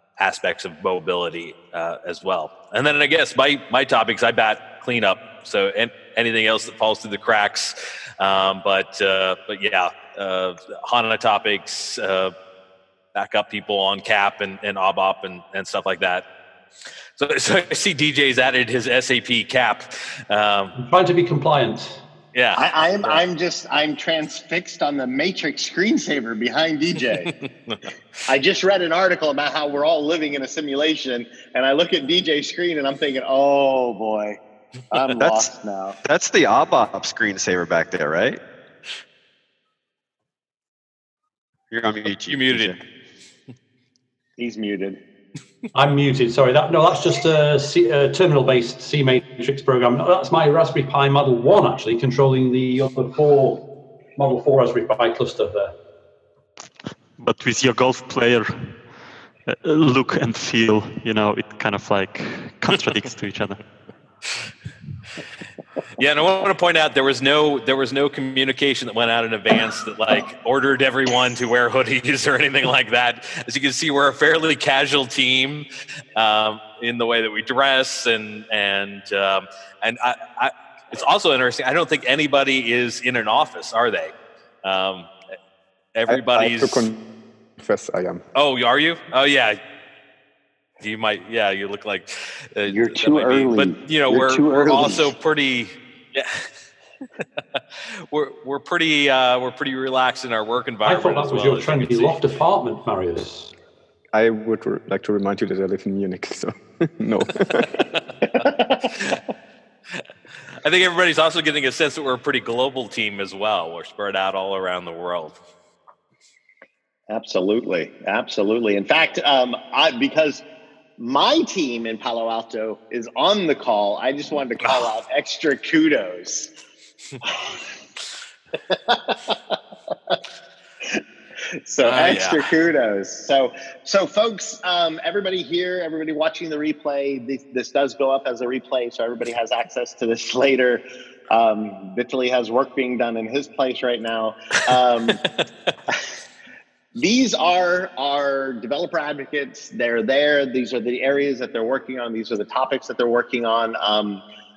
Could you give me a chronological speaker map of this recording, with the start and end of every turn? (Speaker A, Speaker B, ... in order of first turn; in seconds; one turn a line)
Speaker A: 0.2-12.3
Speaker A: 13.1-16.2
Speaker A: 17.2-20.7
Speaker B: 20.8-22.0
Speaker A: 22.3-23.2
Speaker C: 22.6-27.3
Speaker C: 28.3-34.4
Speaker C: 34.9-36.0
Speaker D: 35.2-35.5
Speaker D: 36.0-38.4
Speaker D: 41.7-42.8
Speaker A: 42.3-42.8
Speaker C: 44.4-45.0
Speaker B: 45.7-53.6
Speaker B: 54.2-55.7
Speaker E: 57.2-58.8
Speaker E: 59.5-63.6
Speaker A: 66.0-84.1
Speaker A: 84.6-85.1
Speaker A: 85.9-86.8
Speaker F: 86.1-87.0
Speaker F: 87.6-88.2
Speaker A: 88.3-89.6
Speaker A: 90.8-96.5
Speaker C: 92.7-95.1
Speaker A: 97.5-102.2
Speaker B: 100.8-103.5
Speaker F: 104.1-107.7
Speaker C: 108.3-108.9
Speaker A: 110.6-115.3
Speaker C: 117.1-120.4
Speaker C: 121.0-126.5
Speaker C: 127.2-127.6
Speaker C: 128.7-129.5
Speaker C: 131.6-145.2
Speaker A: 131.8-132.5
Speaker C: 146.9-154.2